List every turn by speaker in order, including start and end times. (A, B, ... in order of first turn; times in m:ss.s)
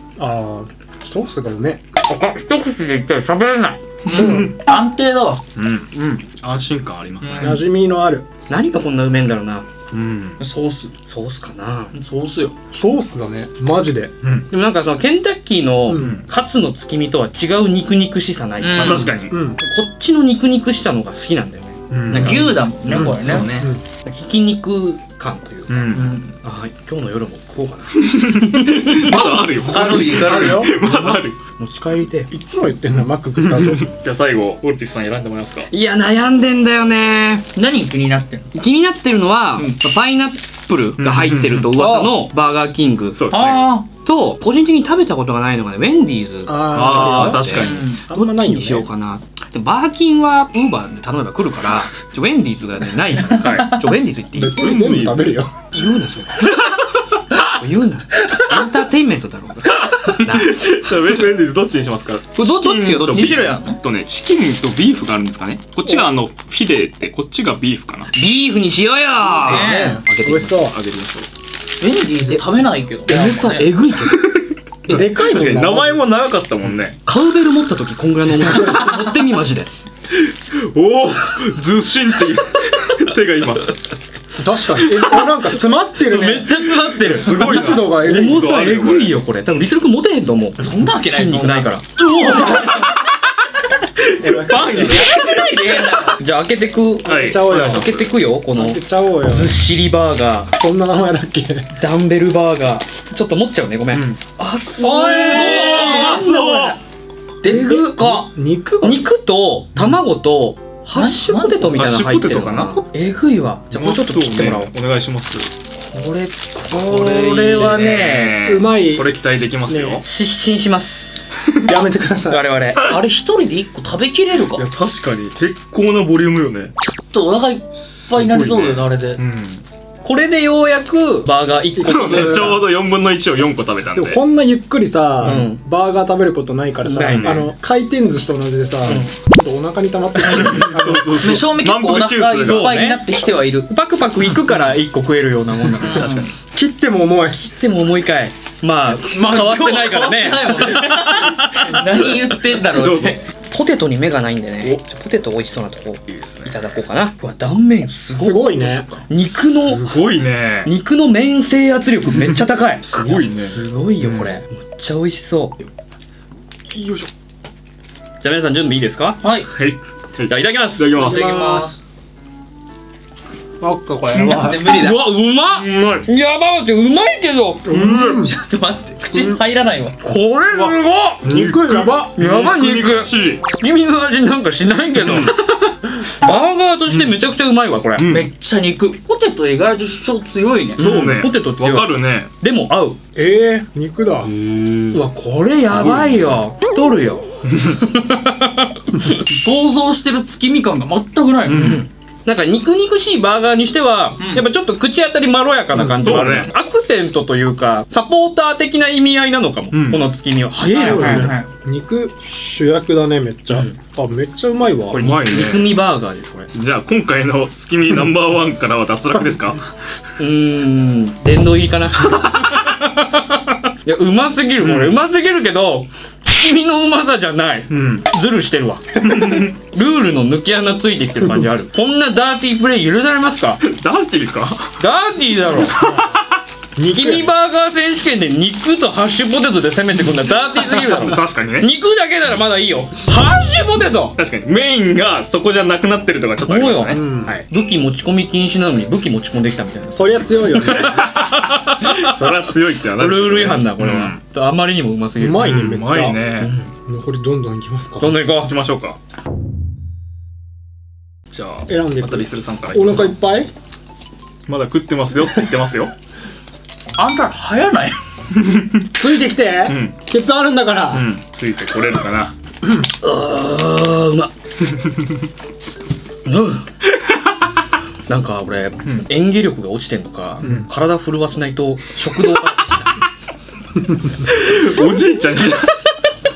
0:00.2-0:01.8 A
0:02.0-0:03.8 B
0:04.0-0:05.4 C
0:04.1-0:04.6 A
0:05.6-0:07.6 D
0:07.2-0:07.6 C
0:07.4-0:08.3 A
0:08.5-0:09.7 B
0:09.9-0:10.4 D
0:10.4-0:10.9 C
0:11.1-0:12.0 B
0:11.9-0:12.5 C
0:12.7-0:14.1 A
0:14.2-0:14.5 D
0:14.5-0:23.3 B
0:15.9-0:16.2 A
0:15.9-0:16.3 D
0:18.6-0:19.0 C
0:18.8-0:19.4 D
0:18.9-0:19.6 A
0:21.9-0:23.7 D
0:22.1-0:23.5 C
0:22.9-0:23.8 A
0:24.0-0:29.2 B
0:25.7-0:26.2 D
0:25.9-0:26.4 C
0:28.0-0:31.4 D
0:29.6-0:30.7 C
0:29.7-0:30.7 A
0:30.8-0:32.3 B
0:32.3-0:33.9 A
0:33.4-0:35.7 D
0:35.7-0:37.5 B
0:37.6-0:38.5 C
0:38.5-0:43.2 B
0:41.0-0:41.8 D
0:41.8-0:42.1 C
0:43.2-0:43.6 D
0:43.3-0:43.9 C
0:44.0-0:54.6 B
0:46.5-0:48.9 A
0:46.7-0:47.9 D
0:47.6-0:48.0 C
0:53.4-0:53.7 D
0:54.3-0:55.6 A
0:54.5-0:55.4 D
0:55.7-0:56.7 B
0:57.4-1:00.5 B
0:59.9-1:08.1 D
1:02.4-1:03.5 B
1:03.1-1:03.8 C
1:05.9-1:06.2 A
1:08.1-1:09.7 B
1:09.4-1:11.3 D
1:09.4-1:10.8 A
1:09.4-1:10.0 C
1:11.8-1:13.8 C
1:13.1-1:14.5 B
1:14.8-1:17.0 D
1:14.9-1:16.0 A
1:17.0-1:19.7 B
1:20.1-1:23.8 D
1:24.4-1:28.6 A
1:26.2-1:31.9 B
1:27.0-1:29.2 D
1:30.6-1:33.0 C
1:32.4-1:32.9 D
1:34.2-1:35.1 A
1:34.2-1:35.4 D
1:34.7-1:36.2 C
1:36.2-1:40.5 B
1:37.0-1:38.0 A
1:37.0-1:38.0 D
1:38.5-1:39.6 A
1:40.6-1:41.7 A
1:41.8-1:46.4 B
1:43.9-1:44.2 D
1:44.8-1:46.8 A
1:45.0-1:46.8 D
1:47.4-1:54.7 B
1:47.4-1:49.1 A
1:50.9-1:51.8 C
1:51.8-1:52.8 D
1:53.7-1:55.5 D
1:55.9-1:58.4 B
1:56.8-2:00.0 D
1:58.4-1:59.1 A
1:59.7-2:00.0 A
2:00.0-2:01.3 B
2:01.7-2:02.4 A
2:02.3-2:02.9 B
2:02.8-2:04.6 C
2:04.5-2:06.7 D
2:06.8-2:09.2 C
2:08.1-2:09.6 D
2:10.0-2:12.6 B
2:11.7-2:12.6 A
2:11.8-2:14.2 D
2:13.9-2:21.4 A
2:15.2-2:15.6 B
2:16.8-2:17.5 B
2:17.0-2:17.5 D
2:18.8-2:19.1 B
2:20.2-2:22.8 D
2:21.1-2:23.7 C
2:22.4-2:23.0 B
2:23.7-2:26.1 B
2:25.8-2:26.3 C
2:25.8-2:26.3 D
2:26.4-2:27.5 A
2:27.4-2:32.1 B
2:29.0-2:29.5 A
2:29.2-2:33.2 C
2:32.7-2:33.2 D
2:33.5-2:39.9 B
2:36.1-2:36.6 D
2:38.0-2:39.0 A
2:39.7-2:40.7 D
2:40.6-2:45.6 B
2:42.1-2:42.4 D
2:42.9-2:44.3 D
2:46.7-2:47.1 D
2:48.2-2:49.2 B
2:49.2-2:49.5 C
2:49.5-2:51.3 D
2:50.3-2:51.4 B
2:51.0-2:51.8 C
2:51.1-2:51.7 A
2:53.6-2:54.7 A
2:54.1-2:54.5 D
2:54.4-2:55.2 C
2:54.4-2:57.7 B
2:55.5-2:56.1 D
2:57.6-2:58.3 A
2:57.7-2:58.2 D
2:58.1-3:00.0 C
2:59.1-2:59.4 A
3:00.0-3:01.2 B
3:00.5-3:03.4 D
3:01.2-3:02.2 A
3:02.2-3:08.1 B
3:05.0-3:05.3 D
3:06.9-3:07.2 D
3:08.0-3:08.3 D
3:08.1-3:10.8 C
3:10.8-3:11.9 B
3:10.8-3:12.3 D
3:12.4-3:13.0 B
3:13.2-3:14.3 A
3:14.3-3:15.0 D
3:14.9-3:19.2 B
3:15.7-3:16.4 D
3:19.3-3:21.8 C
3:21.4-3:21.8 D
3:21.5-3:31.3 B
3:24.2-3:24.5 C
3:25.9-3:26.5 D
3:29.7-3:30.1 D
3:30.6-3:35.1 A
3:30.8-3:31.5 C
3:30.8-3:31.3 D
3:34.9-3:36.5 B
3:34.9-3:35.8 D
3:36.5-3:39.7 D
3:40.2-3:53.6 B
3:44.6-3:45.0 D
3:47.7-3:48.0 D
3:49.0-3:49.5 D
3:53.6-3:54.7 D
3:54.8-3:56.0 B
3:55.6-3:56.2 D
3:56.8-3:57.3 A
3:56.8-4:04.2 B
4:00.6-4:01.7 D
4:04.2-4:07.5 D
4:06.4-4:12.3 B
4:06.9-4:07.3 A
4:09.9-4:11.1 A
4:10.6-4:14.2 D
4:13.0-4:15.4 B
4:15.2-4:16.2 A
4:15.4-4:16.5 D
4:16.4-4:16.7 B
4:16.8-4:18.2 A
4:18.0-4:18.6 B
4:18.4-4:19.0 D
4:21.3-4:23.2 D
4:21.7-4:23.5 A
4:24.5-4:25.9 D
4:27.0-4:28.0 C
4:28.4-4:28.8 D
4:29.0-4:31.1 A
4:29.7-4:30.0 D
4:30.9-4:32.4 D
4:33.0-4:34.3 B
4:36.3-4:36.7 B
4:38.1-4:43.0 B
4:44.2-4:45.8 D